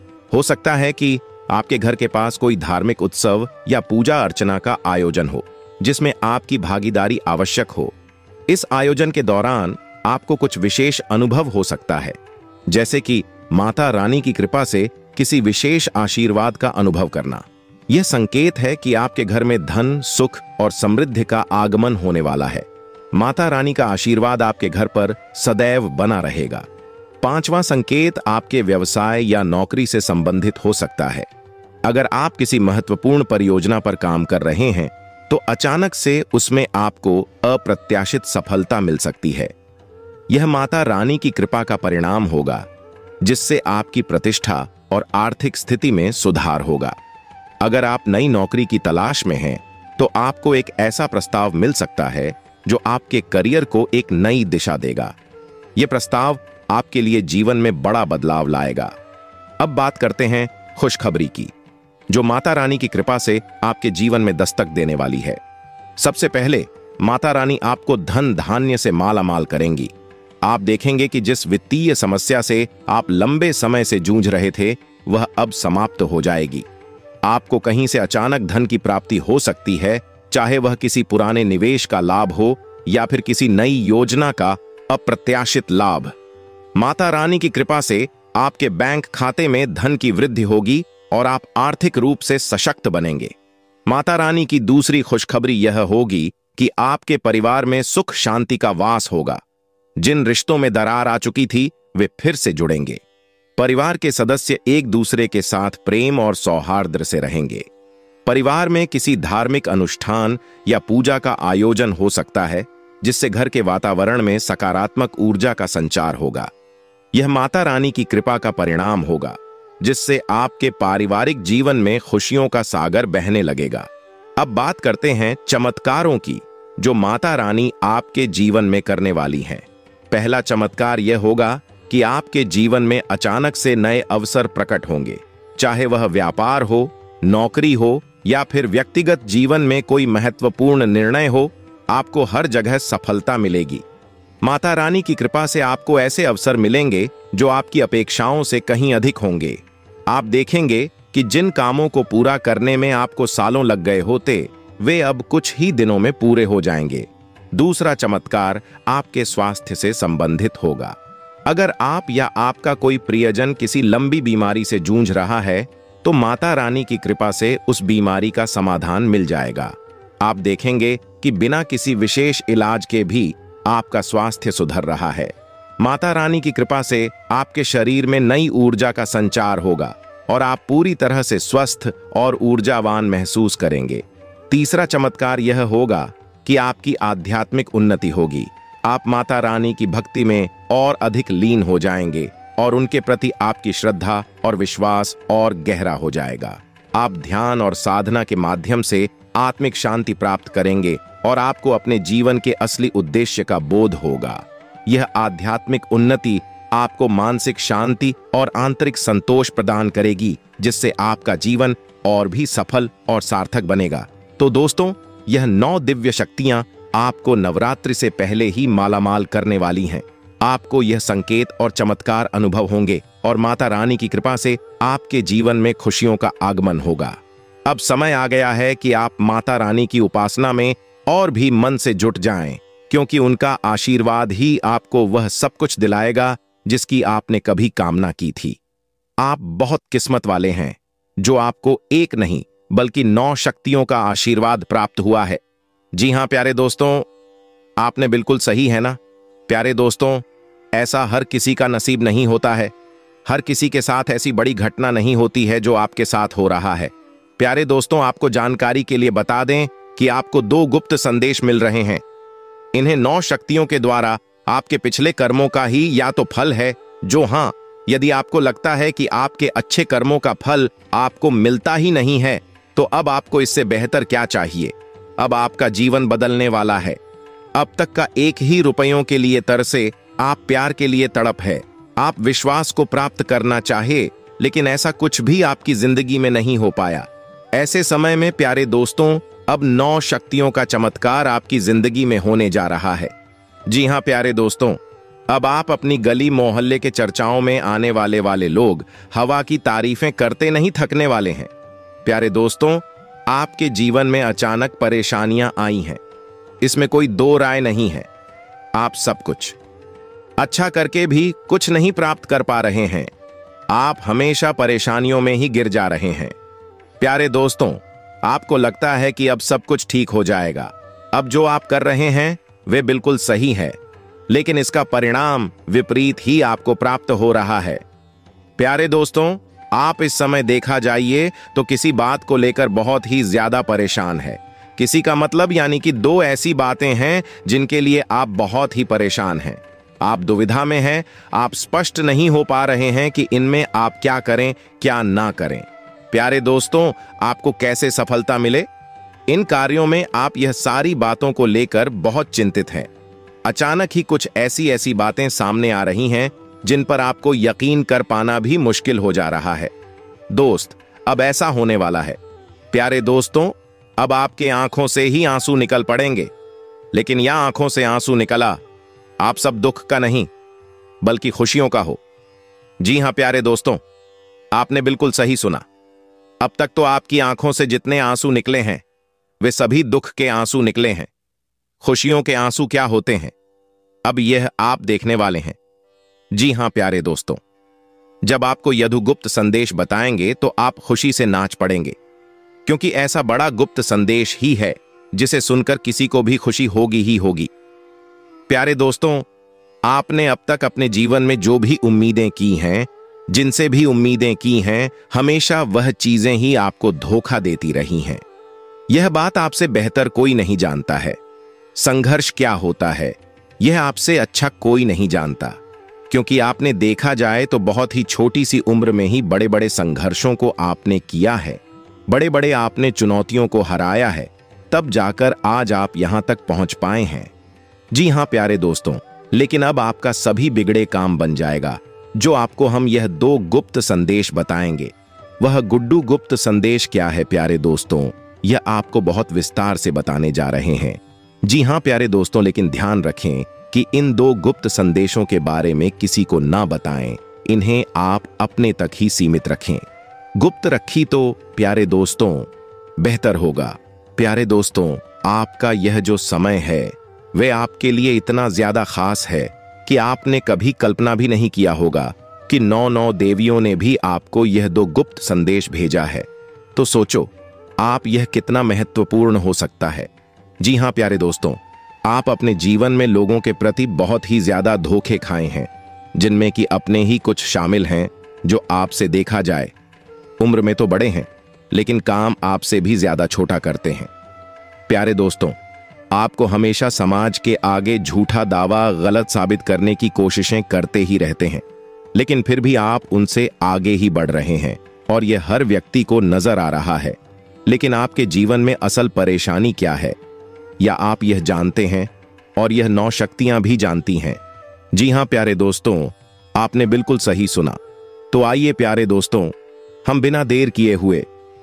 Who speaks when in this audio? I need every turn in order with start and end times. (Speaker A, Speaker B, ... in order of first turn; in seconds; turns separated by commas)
Speaker A: 0.3-8.0, Speaker A: 8.5-12.2, Speaker A: 12.7-26.7, Speaker A: 27.2-31.3, Speaker A: 31.9-39.5, Speaker A: 40.3-42.7, Speaker A: 43.2-47.0, Speaker A: 47.6-55.1, Speaker A: 55.8-58.9, Speaker A: 59.6-61.5, Speaker A: 62.1-65.4, Speaker A: 66.0-76.7, Speaker A: 77.2-86.1, Speaker A: 86.8-93.3, Speaker A: 93.9-99.4, Speaker A: 100.0-103.0, Speaker A: 103.6-107.7, Speaker A: 108.3-116.5, Speaker A: 117.1-143.8, Speaker A: 144.4-238.6, Speaker A: 239.2-245.4, Speaker A: 245.9-247.1, Speaker A: 247.8-252.7, Speaker A: 253.3-262.0, Speaker A: 262.7-277.0, Speaker A: 277.6-293.1, Speaker A: 293.7-301.5, Speaker A: 302.1-306.0, Speaker A: 306.6-308.1, Speaker A: 308.8-309.6, Speaker A: 310.4-313.1, Speaker A: 313.7-316.3, Speaker A: 317.0-323.8, Speaker A: 324.3-327.8, Speaker A: 328.6-348.7, Speaker A: 349.3-352.9, Speaker A: 353.4-359.7, Speaker A: 360.3-362.2, Speaker A: 362.7-366.3, Speaker A: 366.9-368.6, Speaker A: 369.2-370.3, Speaker A: 371.0-372.0, Speaker A: 372.8-373.8, Speaker A: 374.5-375.6, Speaker A: 376.4-378.8, Speaker A: 379.4-381.1, Speaker A: 381.8-383.3, Speaker A: 384.1-385.6, Speaker A: 386.3-387.4, Speaker A: 388.2-392.0, Speaker A: 392.7-397.5, Speaker A: 398.5-399.3, Speaker A: 399.9-408.2, Speaker A: 408.9-411.2, Speaker A: 411.8-427.3, Speaker A: 427.9-449.8, Speaker A: 450.4-479.7, Speaker A: 480.4-484.1, Speaker A: 484.9-485.6, Speaker A: 486.1-500.2, Speaker A: 500.8-504.4, Speaker A: 504.9-507.8, Speaker A: 508.3-509.5, Speaker A: 510.1-511.3